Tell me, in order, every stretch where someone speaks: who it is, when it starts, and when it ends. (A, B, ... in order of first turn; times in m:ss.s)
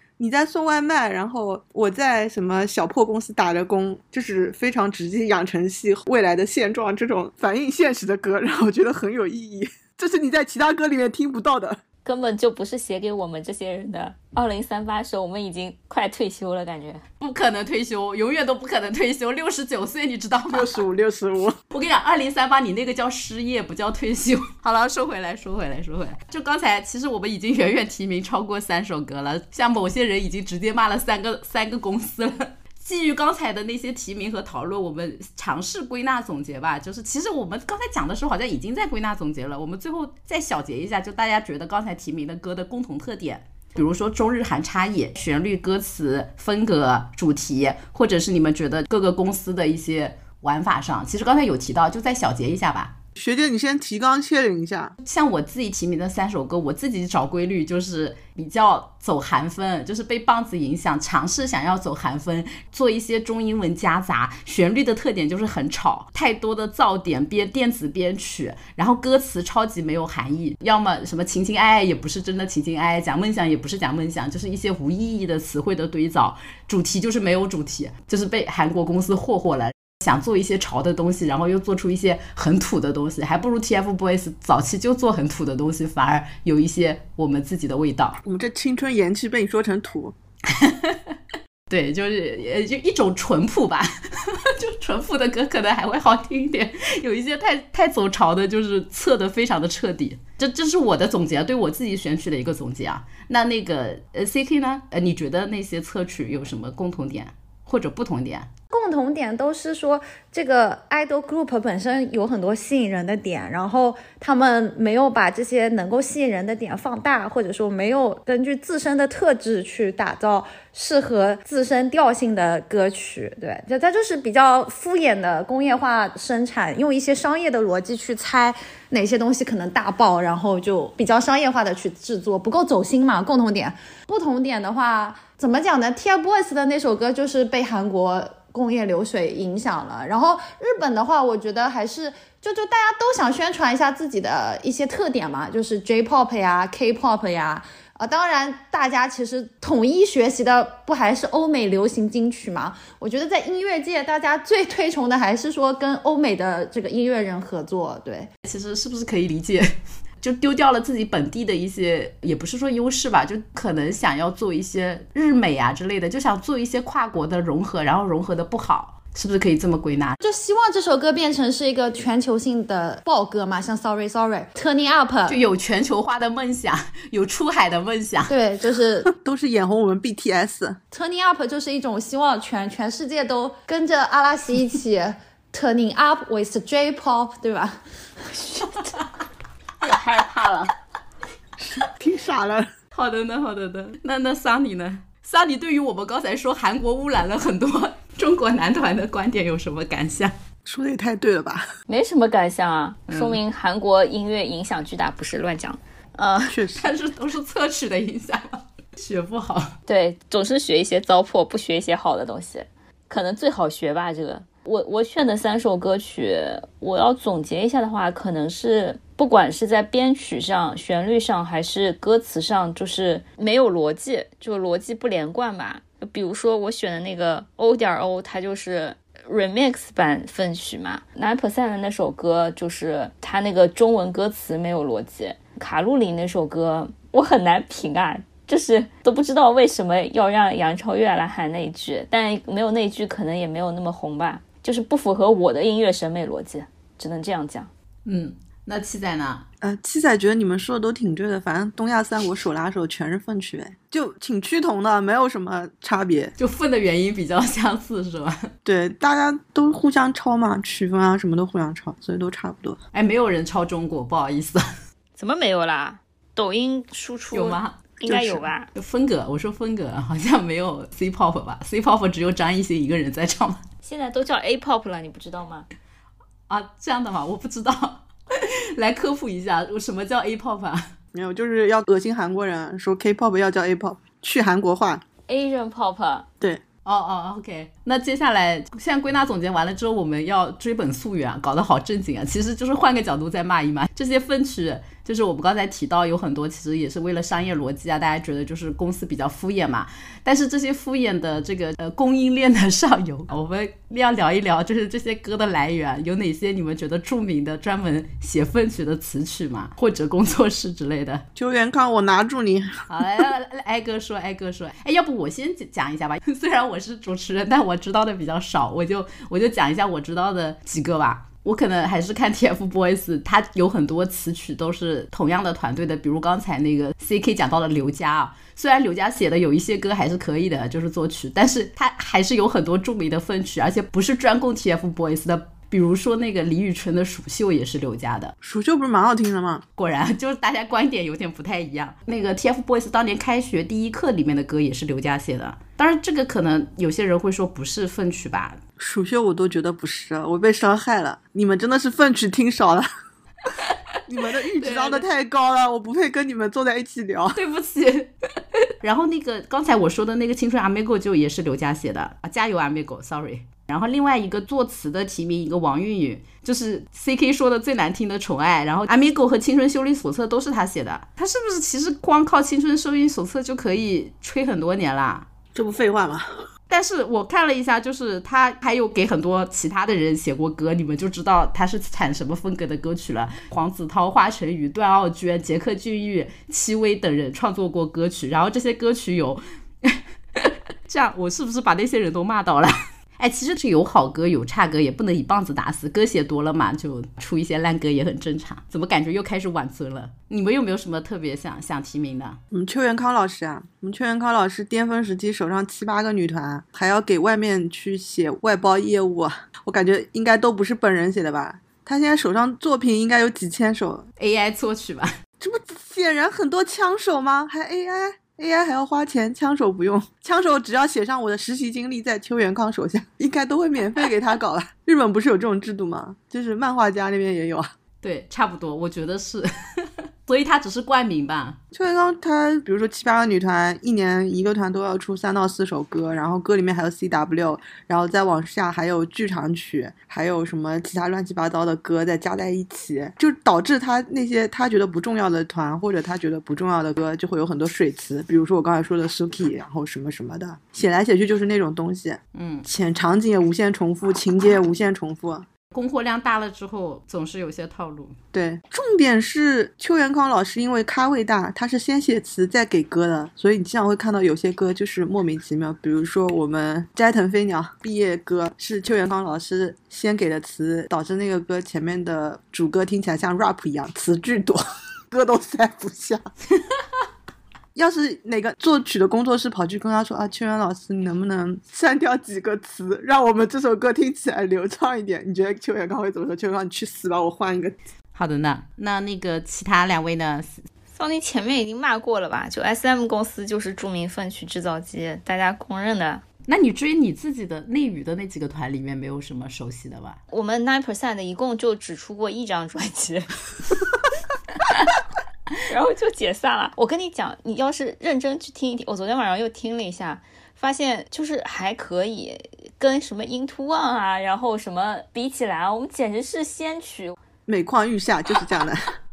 0:00.2-0:11.8 A
0:12.0-0:17.0 B
0:17.2-0:20.7 C
0:20.5-0:21.6 A
0:21.7-0:52.9 C
0:53.2-0:54.9 A
0:55.0-1:28.2 C
1:28.2-1:30.1 A
1:30.5-1:31.2 C
1:31.7-1:48.5 C
1:48.7-2:38.3 D
2:38.4-2:50.2 C
2:50.2-2:55.4 D
2:55.3-2:58.3 C
2:58.3-2:59.1 D
2:59.0-3:00.8 A
3:00.9-3:07.8 D
3:09.8-3:10.6 B
3:11.6-3:12.7 A
3:12.9-3:20.3 C
3:20.6-3:21.7 A
3:21.9-3:26.6 B
3:23.1-3:23.4 C
3:26.5-3:26.9 A
3:26.8-3:29.7 C
3:29.9-4:07.7 B
4:08.0-4:09.4 C
4:09.6-4:16.3 A
4:16.4-4:18.5 C
4:18.6-4:22.8 A
4:22.9-4:24.6 C
4:25.2-4:28.7 B
4:27.3-4:27.7 C
4:28.0-4:28.4 A
4:28.7-4:33.6 C
4:33.8-4:35.6 B
4:36.5-4:40.9 C
4:41.1-4:45.0 A
4:45.3-4:46.3 B
4:46.8-5:11.2 C
5:11.3-5:13.0 A
5:12.9-5:38.3 C
5:38.4-5:39.6 A
5:39.8-5:48.6 C
5:48.8-5:52.8 A
5:54.1-5:57.4 A
5:54.6-5:55.0 C
5:57.4-5:58.1 C
5:58.8-6:15.2 C
6:15.5-6:16.5 A
6:16.7-6:42.4 C
6:42.5-6:54.0 A
6:54.2-6:55.1 C
6:55.4-7:07.7 A
7:08.0-7:11.6 C
7:11.7-7:35.4 A
7:32.3-7:32.6 C
7:35.7-7:38.2 C
7:38.3-7:56.2 A
7:57.7-8:07.8 A
8:08.1-8:10.6 C
8:10.9-8:16.2 B
8:16.5-8:20.2 C
8:20.3-8:23.7 B
8:25.7-8:37.2 B
8:37.5-8:38.8 A